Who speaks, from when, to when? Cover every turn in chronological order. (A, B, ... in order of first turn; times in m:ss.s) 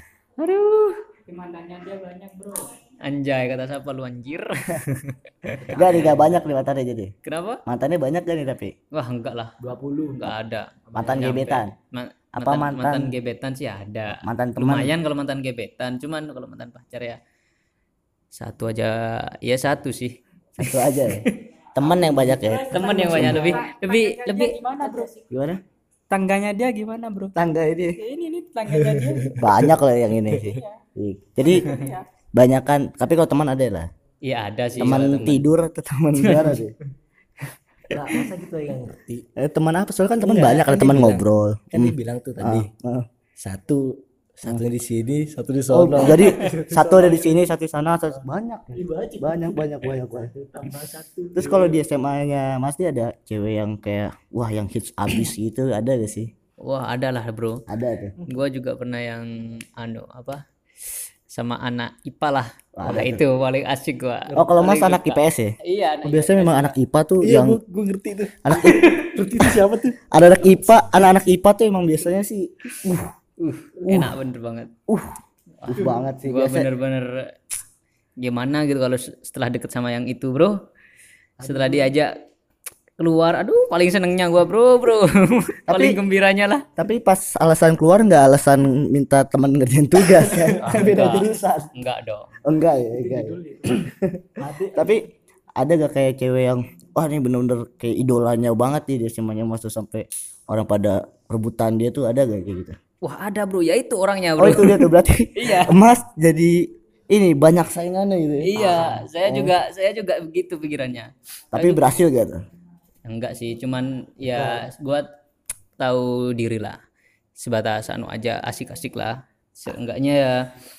0:00.4-0:01.0 A
0:01.3-0:02.7 B
0:03.0-0:06.2 A
0:05.7-0:07.1 C
0:05.7-0:06.3 D
0:07.2-0:07.6 A
0:07.6-0:08.7 C
0:08.9-0:09.5 A
0:09.6-0:10.4 D
0:10.2-0:17.2 A
0:10.9-0:11.3 D
0:10.9-0:11.7 C
0:12.3-0:13.1 C
0:14.1-0:14.9 C
0:18.3-0:21.4 A
0:20.6-0:23.5 C
0:22.0-0:25.2 B
0:22.7-0:24.6 A
0:25.3-0:25.6 C
0:26.1-0:27.3 B
0:27.4-0:28.0 C
0:28.0-0:29.4 B
0:28.7-0:29.7 D
0:29.4-0:31.7 C
0:30.4-0:30.8 B
0:31.4-0:32.0 B
0:32.3-0:33.9 C
0:34.2-0:35.4 A
0:34.8-0:36.7 C
0:36.2-0:36.6 A
0:37.9-0:39.2 D
0:39.4-0:43.1 C
0:40.2-0:42.7 D
0:43.4-0:47.4 D
0:45.7-0:50.3 C
0:48.7-0:51.8 D
0:51.4-0:56.3 C
0:56.6-0:57.6 A
0:57.7-0:58.2 C
0:58.3-1:00.4 A
1:01.3-1:06.8 A
1:02.8-1:03.2 C
1:04.3-1:04.6 D
1:04.4-1:07.6 C
1:07.2-1:10.0 D
1:08.4-1:08.9 C
1:10.1-1:13.1 C
1:13.4-1:14.7 A
1:14.9-1:15.1 C
1:15.6-1:17.3 A
1:15.6-1:16.7 C
1:18.2-1:20.6 A
1:21.4-1:22.1 A
1:21.4-1:21.9 D
1:23.0-1:26.6 A
1:25.7-1:26.0 C
1:26.8-1:31.4 C
1:30.0-1:31.7 D
1:30.6-1:32.3 A
1:32.4-1:35.0 C
1:32.9-1:35.0 D
1:35.6-1:42.8 C
1:43.0-1:45.8 A
1:44.4-1:49.0 C
1:48.4-1:51.8 A
1:48.6-1:49.5 D
1:51.5-1:52.4 C
1:53.0-1:55.1 A
1:54.3-1:54.6 D
1:55.8-1:56.8 A
1:57.4-2:00.5 A